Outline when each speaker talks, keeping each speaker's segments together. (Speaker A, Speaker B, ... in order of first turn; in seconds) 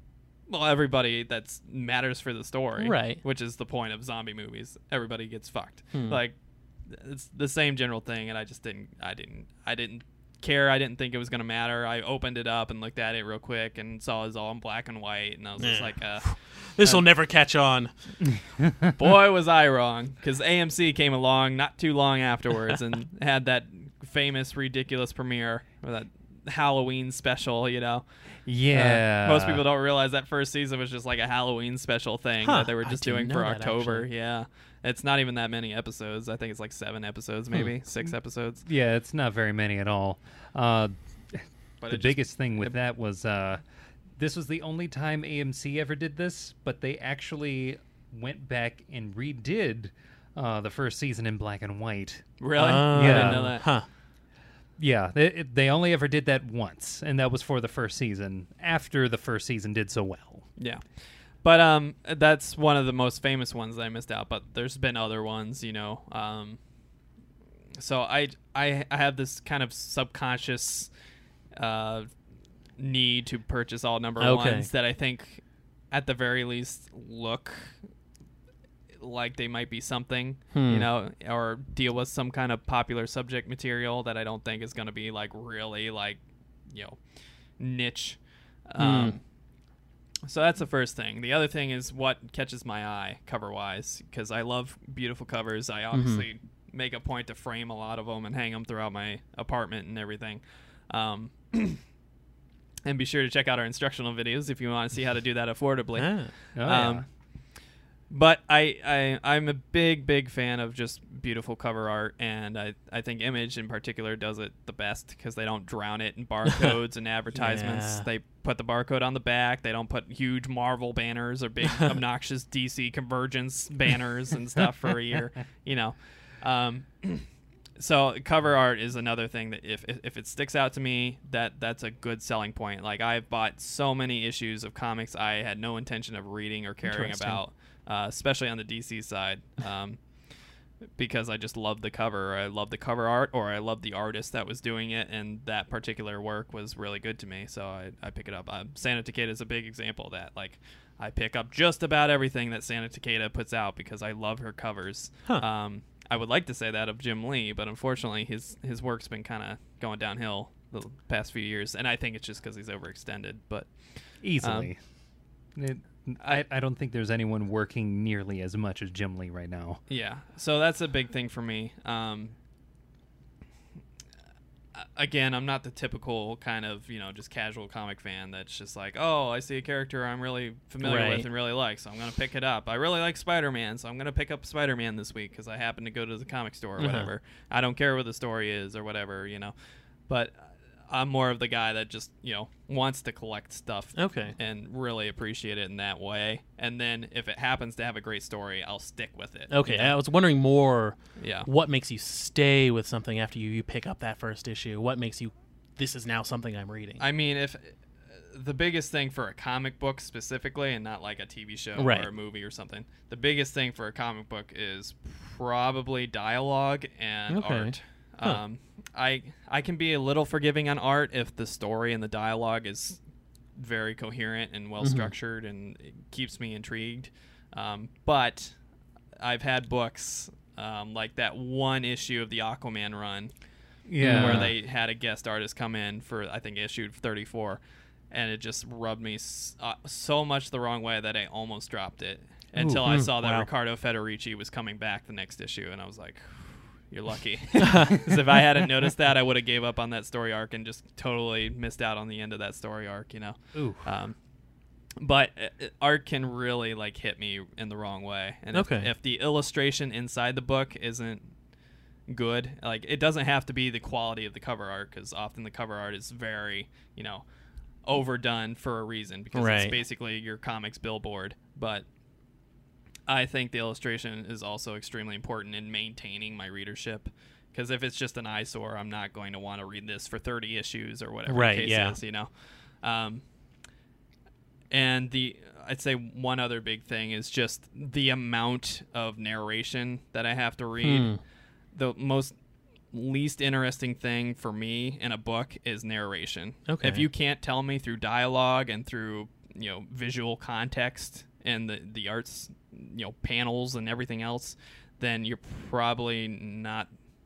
Speaker A: 0.5-6.3, 6.9-16.3, 18.9-28.0, 28.7-38.6, 41.8-42.8, 52.4-53.7, 60.6-60.8, 61.4-66.6, 67.8-70.9, 71.6-72.1, 72.8-77.8, 79.0-87.0, 87.6-89.2, 90.3-101.8, 102.8-107.0, 108.1-140.0, 141.0-163.7, 164.4-164.7, 169.9-172.3, 174.7-189.5, 190.1-199.9, 201.2-201.5, 207.0-207.8, 208.3-223.0, 223.6-228.6, 229.2-233.3, 234.0-237.6, 238.1-254.2, 255.0-261.3, 262.1-267.3, 267.9-271.9, 273.1-282.3, 282.8-283.2, 284.7-291.1, 291.7-292.4, 292.9-306.9
Speaker B: 2.8-3.2, 5.9-6.2, 15.6-17.9, 32.4-34.1, 52.6-53.9, 74.2-74.7, 80.5-80.9, 88.8-89.2, 95.9-96.2, 106.0-106.3, 117.3-118.1, 136.8-137.4, 180.8-181.3, 186.8-187.1, 194.0-194.3, 199.5-207.0, 211.8-212.1, 217.3-218.4, 224.8-225.1, 234.0-234.5, 242.7-243.5, 247.6-248.0, 258.5-258.9, 269.3-269.8, 281.3-282.0, 290.8-291.2, 296.7-297.1
Speaker C: 18.3-18.9, 28.4-29.6, 38.6-43.6, 44.2-52.3, 52.9-53.5, 54.8-60.5, 106.5-107.0, 164.2-164.8, 165.6-169.8, 233.9-234.5, 253.6-253.8